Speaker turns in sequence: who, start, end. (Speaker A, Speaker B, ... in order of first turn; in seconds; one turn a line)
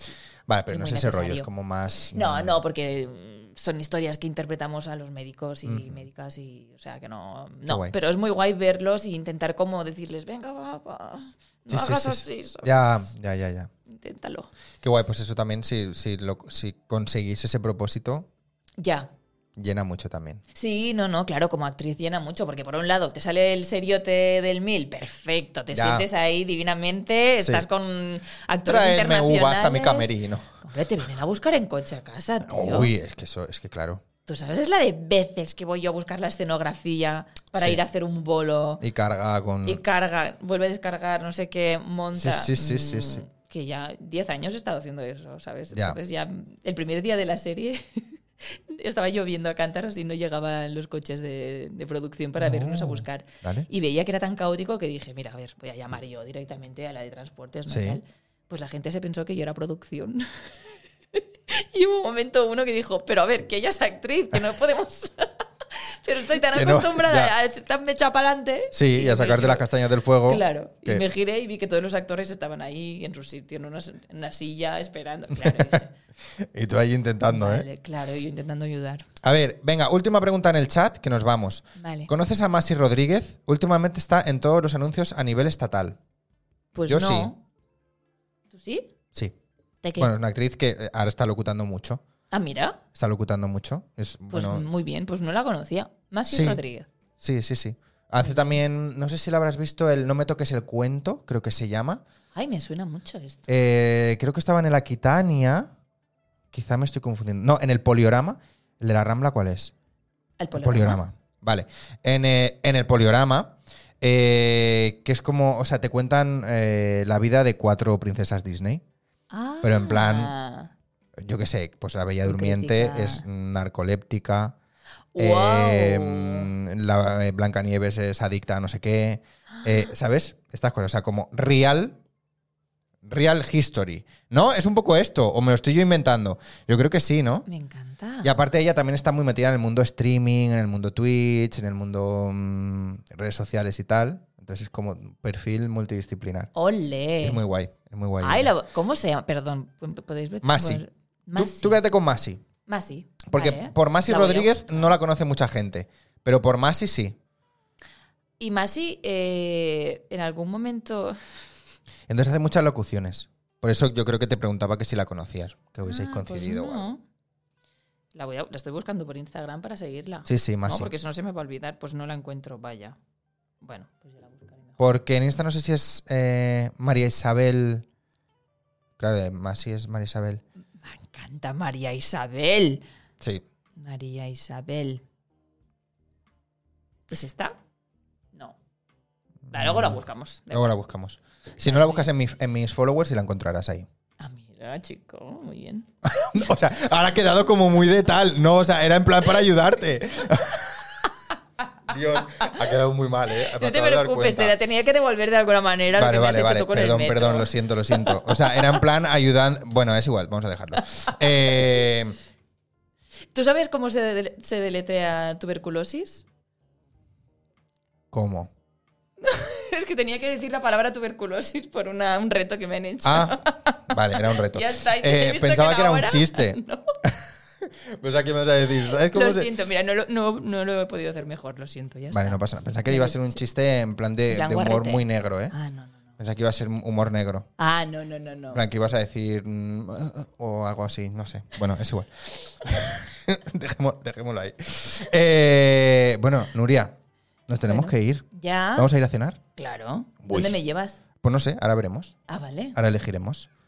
Speaker A: 0.5-2.6
Speaker B: 0.7-1.5
Speaker B: 2.1-13.1
Speaker A: 5.6-6.0
Speaker A: 7.7-7.9
Speaker A: 11.7-13.7
Speaker B: 13.9-14.5
Speaker A: 14.8-18.3
Speaker B: 18.8-19.1
Speaker A: 19.6-20.4
Speaker B: 20.5-32.9
Speaker A: 25.7-26.1
Speaker A: 27.4-27.6
Speaker A: 28.6-30.6
Speaker A: 32.4-34.0
Speaker B: 34.2-38.8
Speaker A: 38.8-39.8
Speaker B: 39.6-60.5
Speaker A: 42.1-43.2
Speaker A: 45.7-46.0
Speaker A: 52.4-53.7
Speaker A: 57.7-58.0
Speaker B: 61.1-69.7
Speaker A: 66.5-67.3
Speaker A: 68.7-71.0
Speaker B: 70.2-75.9
Speaker A: 75.3-75.8
Speaker A: 76.4-77.7
Speaker B: 77.3-79.1
Speaker A: 79.2-86.0
Speaker B: 81.8-82.1
Speaker B: 86.7-87.4
Speaker A: 86.9-87.3
Speaker B: 88.5-88.9
Speaker B: 89.8-90.1
Speaker A: 90.0-92.0
Speaker B: 92.3-92.8
Speaker A: 92.9-94.7
Speaker B: 94.3-96.9
Speaker A: 96.3-96.6
Speaker A: 97.2-102.0
Speaker B: 102.3-103.5
Speaker A: 103.5-105.7
Speaker A: 106.5-109.7
Speaker B: 110.4-111.0
Speaker A: 110.5-118.8
Speaker B: 119.3-120.7
Speaker A: 119.6-120.3
Speaker A: 121.2-124.5
Speaker B: 122.2-123.2
Speaker B: 125.1-126.5
Speaker A: 125.2-132.0
Speaker A: 133.0-137.4
Speaker B: 137.5-138.3
Speaker A: 138.2-146.5
Speaker B: 146.5-147.4
Speaker A: 147.2-148.5
Speaker B: 148.2-151.8
Speaker A: 150.4-150.8
Speaker A: 151.3-152.4
Speaker B: 152.7-154.9
Speaker A: 153.3-157.2
Speaker B: 158.4-161.2
Speaker A: 162.1-166.9
Speaker B: 165.8-167.0
Speaker B: 168.1-173.0
Speaker A: 170.2-170.9
Speaker B: 173.6-174.8
Speaker A: 174.8-177.8
Speaker A: 179.0-180.4
Speaker B: 180.8-182.8
Speaker B: 183.8-185.0
Speaker B: 187.1-187.6
Speaker A: 189.5-190.0
Speaker B: 189.5-190.7
Speaker A: 190.5-193.9
Speaker B: 191.6-192.1
Speaker B: 194.2-195.9
Speaker A: 196.0-201.1
Speaker A: 201.9-204.6
Speaker B: 202.2-202.6
Speaker B: 203.5-208.8
Speaker A: 205.9-212.2
Speaker B: 210.8-211.2
Speaker B: 213.3-216.2
Speaker A: 218.1-218.5
Speaker B: 219.2-226.9
Speaker A: 223.0-229.5
Speaker B: 229.1-233.4
Speaker A: 232.1-235.5
Speaker B: 234.3-236.1
Speaker A: 236.2-237.5
Speaker B: 237.6-238.6
Speaker A: 238.5-247.0
Speaker A: 247.5-249.4
Speaker B: 247.6-248.9
Speaker B: 249.6-251.0
Speaker A: 250.2-250.6
Speaker A: 251.2-252.1
Speaker B: 252.3-252.8
Speaker A: 252.7-253.5